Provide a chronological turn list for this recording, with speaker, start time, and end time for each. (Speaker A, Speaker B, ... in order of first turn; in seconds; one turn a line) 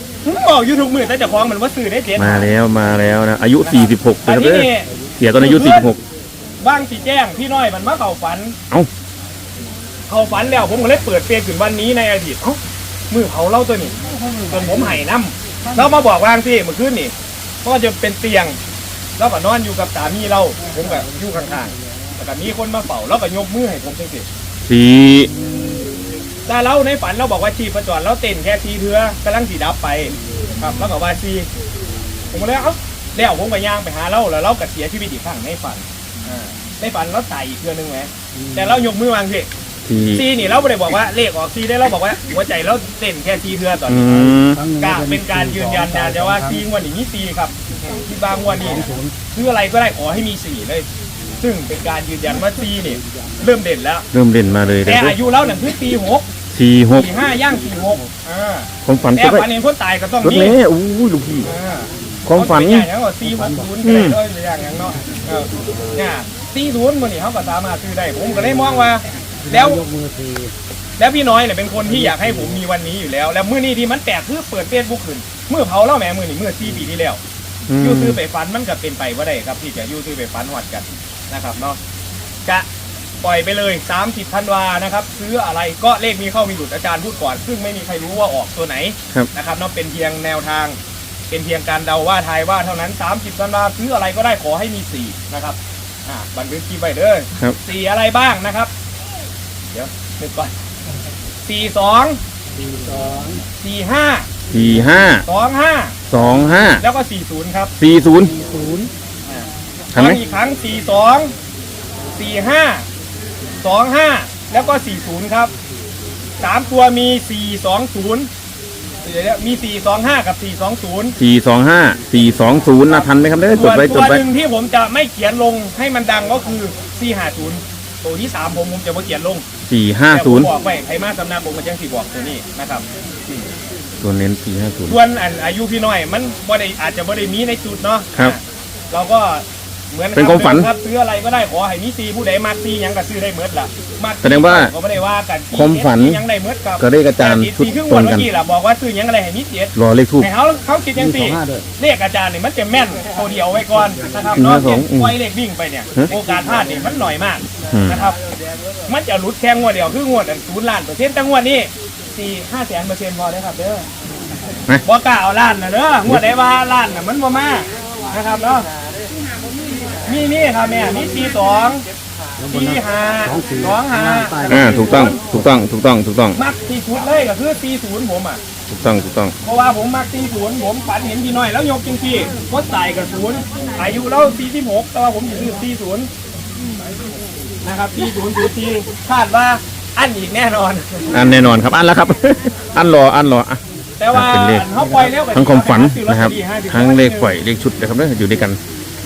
Speaker A: 0.2-2.5
Speaker B: 2.2-6.0
Speaker A: 3.6-5.9
Speaker A: 6.6-8.6
Speaker A: 10.1-12.6
Speaker A: 13.1-14.0
Speaker C: 14.1-14.9
Speaker A: 14.5-17.1
Speaker A: 17.6-18.6
Speaker A: 19.2-24.3
Speaker C: 20.9-21.4
Speaker B: 24.6-25.3
Speaker A: 26.5-31.5
Speaker A: 32.3-39.5
Speaker B: 39.9-40.2
Speaker A: 40.1-50.9
Speaker B: 43.9-44.6
Speaker C: 44.3-46.5
Speaker C: 48.7-49.1
Speaker A: 51.4-54.0
Speaker B: 54.1-55.2
Speaker A: 54.8-56.3
Speaker B: 56.5-57.1
Speaker A: 56.9-60.6
Speaker B: 58.9-59.5
Speaker B: 60.2-61.5
Speaker A: 61.4-69.8
Speaker B: 62.3-62.9
Speaker B: 63.8-64.2
Speaker C: 69.5-70.5
Speaker A: 71.0-77.2
Speaker B: 77.7-78.2
Speaker A: 77.8-81.8
Speaker A: 83.2-90.8
Speaker A: 91.3-98.7
Speaker A: 99.7-100.5
Speaker A: 101.5-102.2
Speaker C: 102.7-103.4
Speaker A: 103.6-104.3
Speaker B: 104.5-105.2
Speaker A: 105.2-106.0
Speaker B: 106.1-106.8
Speaker A: 106.8-107.7
Speaker B: 107.8-108.3
Speaker C: 108.2-108.9
Speaker A: 109.3-111.3
Speaker B: 109.9-110.2
Speaker A: 112.2-112.8
Speaker A: 113.6-115.5
Speaker A: 116.4-118.3
Speaker A: 119.0-121.2
Speaker B: 121.2-124.2
Speaker A: 123.5-129.4
Speaker B: 129.7-130.5
Speaker A: 130.1-133.5
Speaker B: 134.0-135.0
Speaker A: 134.9-158.2
Speaker B: 140.2-140.7
Speaker B: 144.2-144.7
Speaker B: 145.5-146.2
Speaker B: 146.8-148.3
Speaker B: 149.8-150.3
Speaker C: 151.0-151.7
Speaker B: 154.3-155.2
Speaker B: 157.7-158.1
Speaker A: 158.9-163.9
Speaker A: 164.8-168.7
Speaker A: 170.1-171.8
Speaker C: 172.4-175.5
Speaker A: 172.5-175.2
Speaker B: 174.5-176.4
Speaker A: 176.3-178.4
Speaker B: 178.7-179.3
Speaker A: 179.4-186.1
Speaker A: 187.6-191.2
Speaker B: 191.1-193.6
Speaker A: 194.0-197.3
Speaker B: 194.1-194.7
Speaker C: 194.8-195.1
Speaker B: 195.3-198.6